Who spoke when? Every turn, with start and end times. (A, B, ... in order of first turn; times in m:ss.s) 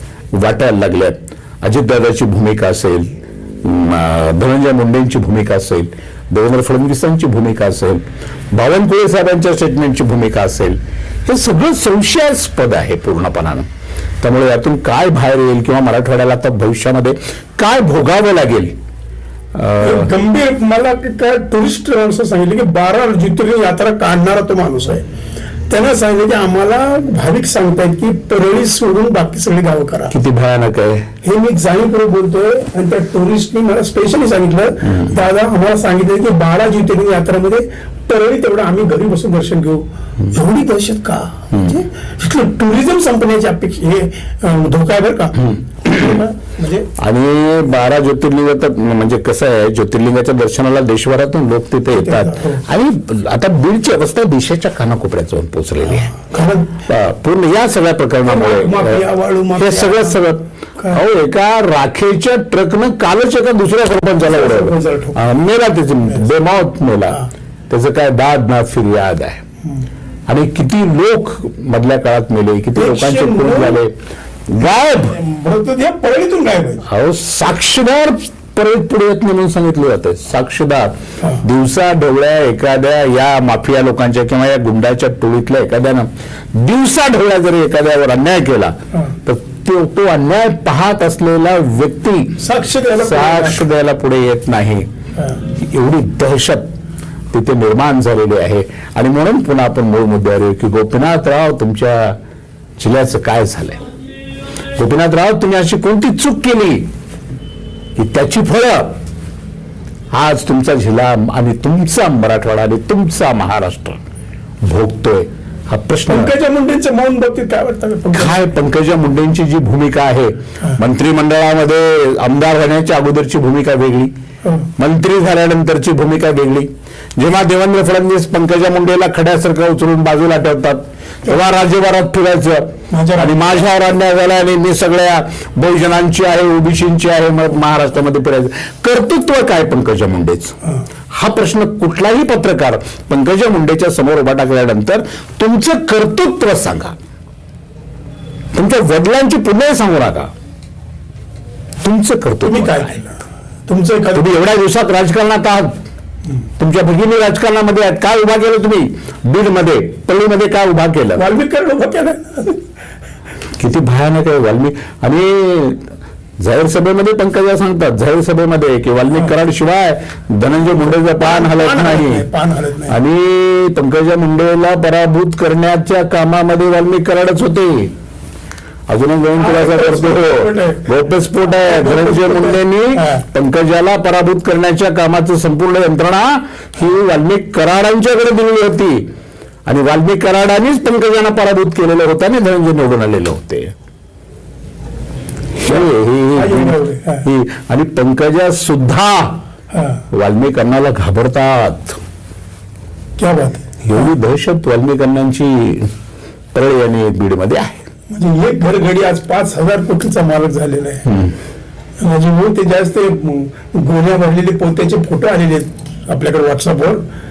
0:00.3-0:13.7 A
0:14.2-0:18.8 A
0:19.5-0:20.1 A
0:19.8-0:25.0 B
0:25.7-0:30.1 B
0:30.1-0:31.1 A
0:31.2-0:46.9 B
0:34.8-0:35.2 A
0:41.5-0:41.8 A
0:45.4-0:46.2 A
0:47.0-0:56.1 A
0:52.0-0:52.7 B
0:55.9-0:56.8 B
0:56.9-0:59.0 A
0:58.2-1:00.2 B
0:59.6-1:09.4 A
1:04.2-1:05.2 B
1:10.3-1:13.9 A
1:12.8-1:13.8 B
1:14.5-1:15.2 A
1:15.1-1:16.8 B
1:16.9-1:32.4 A
1:32.4-1:33.6 B
1:33.0-1:34.9 A
1:35.6-1:36.7 A
1:37.3-1:42.2 A
1:42.8-1:43.8 A
1:44.8-1:46.9 A
1:48.0-1:49.0 A
1:50.1-1:54.0 A
1:54.6-1:56.4 A
1:56.1-1:58.4 B
1:58.1-2:04.1 A
2:04.4-2:04.7 B
2:04.8-2:20.6 A
2:12.9-2:13.6 B
2:21.1-2:27.0 A
2:28.5-2:30.3 A
2:31.8-2:32.9 A
2:32.4-2:34.3 B
2:34.1-2:35.8 A
2:36.6-2:41.2 A
2:41.2-2:42.6 B
2:43.6-2:52.3 A
2:51.2-2:53.0 B
2:52.9-2:58.0 A
2:58.9-3:09.1 A
2:59.4-3:00.9 B
3:01.5-3:03.2 B
3:09.7-3:13.7 A
3:15.6-3:19.4 A
3:15.6-3:17.2 B
3:19.7-3:20.0 B
3:20.1-3:22.0 A
3:23.2-3:24.0 B
3:23.8-3:25.9 A
3:26.5-3:27.9 A
3:28.1-3:31.1 B
3:31.1-3:31.4 A
3:32.0-3:37.0 B